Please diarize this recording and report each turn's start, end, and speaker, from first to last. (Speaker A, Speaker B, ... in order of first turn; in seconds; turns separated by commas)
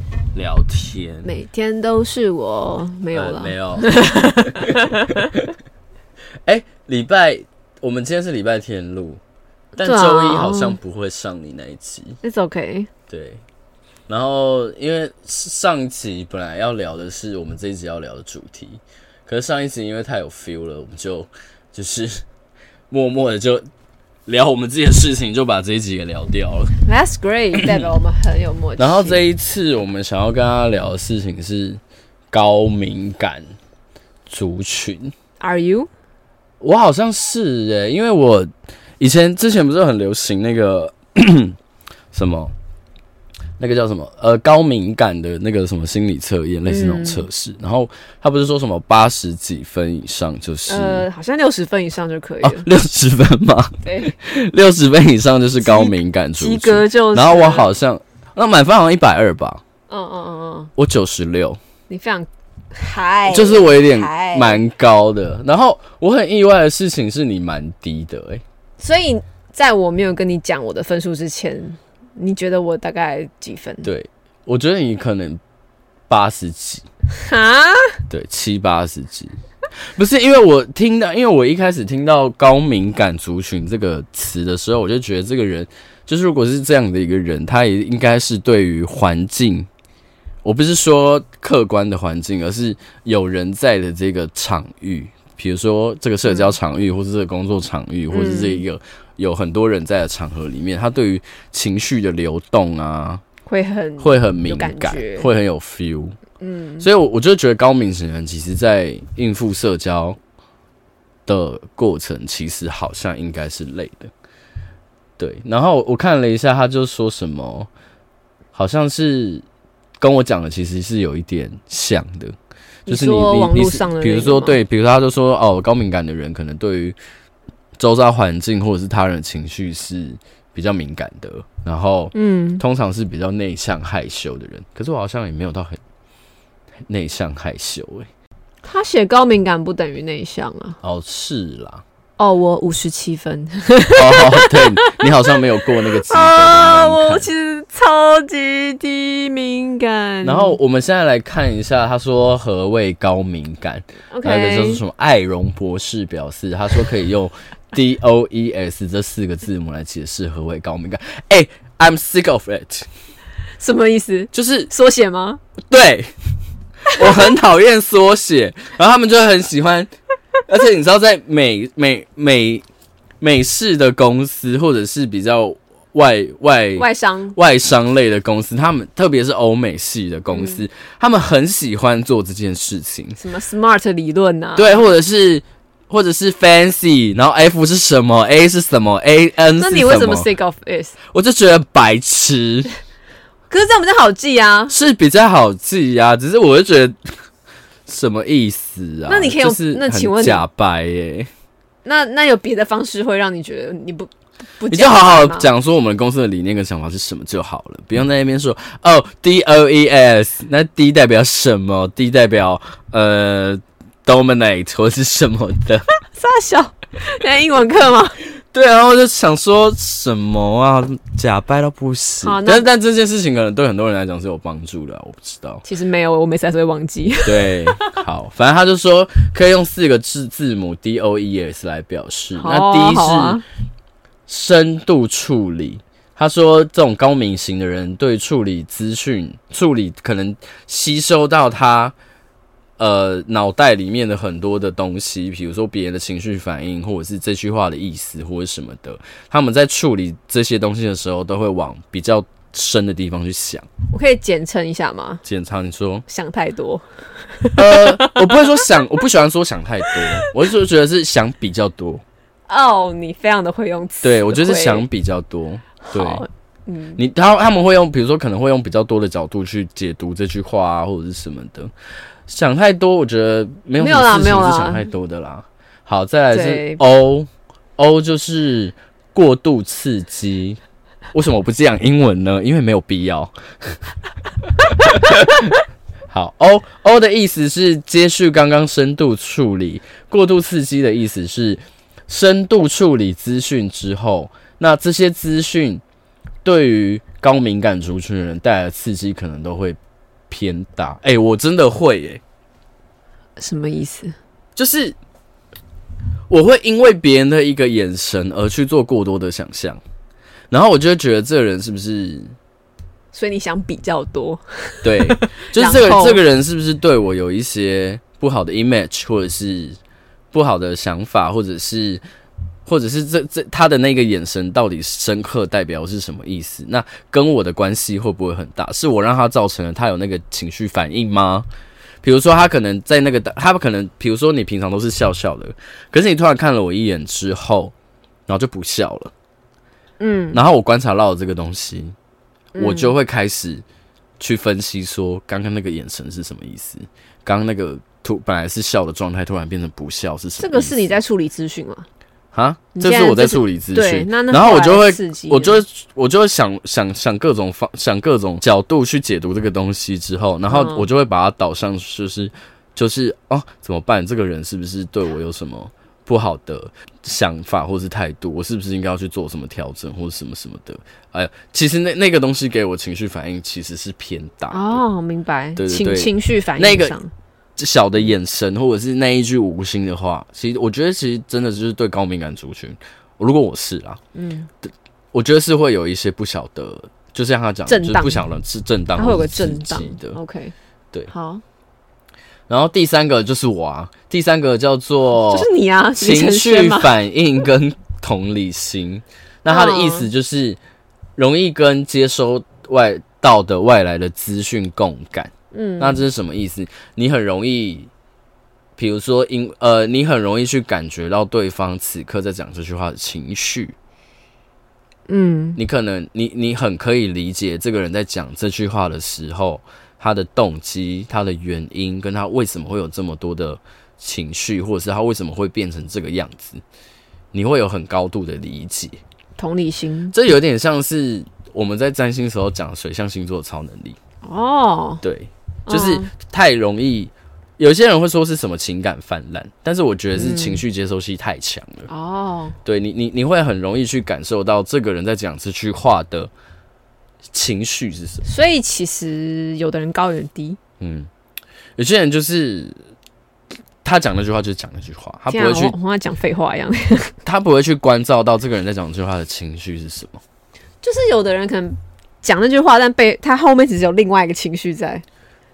Speaker A: 0.3-1.3, Speaker B: 1.2-5.3, Speaker A: 3.1-5.5, Speaker A: 6.4-9.2, Speaker A: 9.8-12.2, Speaker B: 9.8-10.8, Speaker B: 12.2-12.9, Speaker A: 13.1-13.4, Speaker A: 14.1-22.2, Speaker A: 22.9-23.6, Speaker A: 24.2-26.7, Speaker B: 26.8-29.2, Speaker A: 28.8-31.8, Speaker A: 32.3-33.5, Speaker A: 34.3-35.1, Speaker B: 35.4-35.9, Speaker A: 36.6-41.6, Speaker A: 42.1-42.5, Speaker A: 43.6-51.1, Speaker B: 46.7-47.2, Speaker B: 50.7-52.7, Speaker A: 52.4-59.6, Speaker B: 53.8-54.1, Speaker B: 55.6-57.7, Speaker B: 59.9-60.7, Speaker A: 60.8-61.6, Speaker B: 61.9-64.6, Speaker A: 63.3-68.4, Speaker B: 68.8-73.9, Speaker A: 73.8-75.4, Speaker A: 76.1-76.8, Speaker B: 77.1-78.0, Speaker A: 78.1-79.3, Speaker A: 80.0-89.7, Speaker A: 90.4-103.2, Speaker B: 96.2-96.5, Speaker B: 98.1-98.6, Speaker B: 103.5-105.3, Speaker A: 104.0-106.2, Speaker B: 106.4-106.9, Speaker A: 106.8-110.2, Speaker A: 111.3-114.1, Speaker A: 115.2-117.7, Speaker A: 118.5-119.4, Speaker A: 120.0-122.3, Speaker B: 122.9-124.6, Speaker A: 122.9-127.0, Speaker A: 127.8-135.8, Speaker B: 132.1-132.6, Speaker A: 136.8-138.1, Speaker B: 138.6-140.8, Speaker A: 140.8-141.8, Speaker B: 142.2-145.0, Speaker A: 143.9-147.3, Speaker B: 145.9-150.6, Speaker A: 150.2-162.9, Speaker B: 154.1-154.8, Speaker B: 163.6-165.4, Speaker A: 164.3-164.7, Speaker A: 165.7-166.1, Speaker A: 166.9-169.9, Speaker A: 170.5-172.7, Speaker A: 173.2-183.2, Speaker B: 176.8-177.4, Speaker B: 180.3-180.6, Speaker B: 183.2-184.8, Speaker A: 184.6-190.3, Speaker B: 189.6-191.0, Speaker A: 191.1-192.7, Speaker B: 193.5-194.7, Speaker A: 194.7-197.0, Speaker A: 197.8-201.3, Speaker B: 199.1-200.4, Speaker B: 201.8-205.5, Speaker A: 204.7-215.8, Speaker B: 216.2-218.2, Speaker A: 218.5-225.6, Speaker B: 222.2-222.7, Speaker B: 225.6-228.0, Speaker A: 227.2-233.4, Speaker B: 232.3-233.4, Speaker A: 234.3-241.9, Speaker A: 242.8-253.7, Speaker B: 253.9-255.2, Speaker A: 255.2-256.0, Speaker B: 256.1-258.6, Speaker A: 257.5-262.0, Speaker B: 259.9-260.3, Speaker B: 262.5-264.8, Speaker A: 264.0-266.2, Speaker B: 265.8-267.0, Speaker A: 266.9-271.7, Speaker A: 272.3-280.6, Speaker B: 273.8-274.8, Speaker B: 276.3-276.8, Speaker A: 281.1-283.9, Speaker A: 284.6-285.5, Speaker A: 286.1-295.8, Speaker A: 296.4-299.8, Speaker A: 300.3-302.2, Speaker B: 303.4-304.1, Speaker A: 304.6-305.0, Speaker A: 306.3-309.8, Speaker A: 310.5-312.4, Speaker B: 313.1-316.2, Speaker A: 314.8-319.8, Speaker A: 320.3-322.0, Speaker A: 322.6-331.5, Speaker A: 332.0-337.7, Speaker A: 338.3-339.1, Speaker B: 340.0-340.4, Speaker A: 340.3-341.9, Speaker B: 342.5-342.9, Speaker A: 342.6-343.6, Speaker A: 344.2-350.9, Speaker B: 350.4-351.9, Speaker A: 352.3-374.8, Speaker B: 352.7-355.6, Speaker B: 360.5-360.9, Speaker B: 374.5-377.1, Speaker A: 375.6-376.9, Speaker A: 377.6-384.0, Speaker B: 384.1-384.5, Speaker A: 384.6-390.2, Speaker B: 387.7-388.2, Speaker B: 388.9-390.5, Speaker B: 391.1-391.4, Speaker A: 392.5-400.6, Speaker B: 395.2-396.9, Speaker B: 399.5-400.1, Speaker A: 401.2-407.9, Speaker B: 405.5-406.0, Speaker A: 408.8-413.8, Speaker B: 415.1-415.6, Speaker A: 415.6-426.6, Speaker A: 427.3-429.0, Speaker B: 429.4-430.1, Speaker A: 430.1-434.0, Speaker B: 434.2-435.0, Speaker A: 435.0-441.9, Speaker B: 435.7-436.1, Speaker B: 440.1-440.6, Speaker B: 441.9-442.6, Speaker A: 442.6-446.3, Speaker A: 447.3-448.2, Speaker B: 448.2-450.6, Speaker A: 450.8-451.1, Speaker A: 451.8-452.8, Speaker A: 453.8-455.7, Speaker B: 455.3-457.1, Speaker A: 457.2-460.2, Speaker B: 460.8-465.0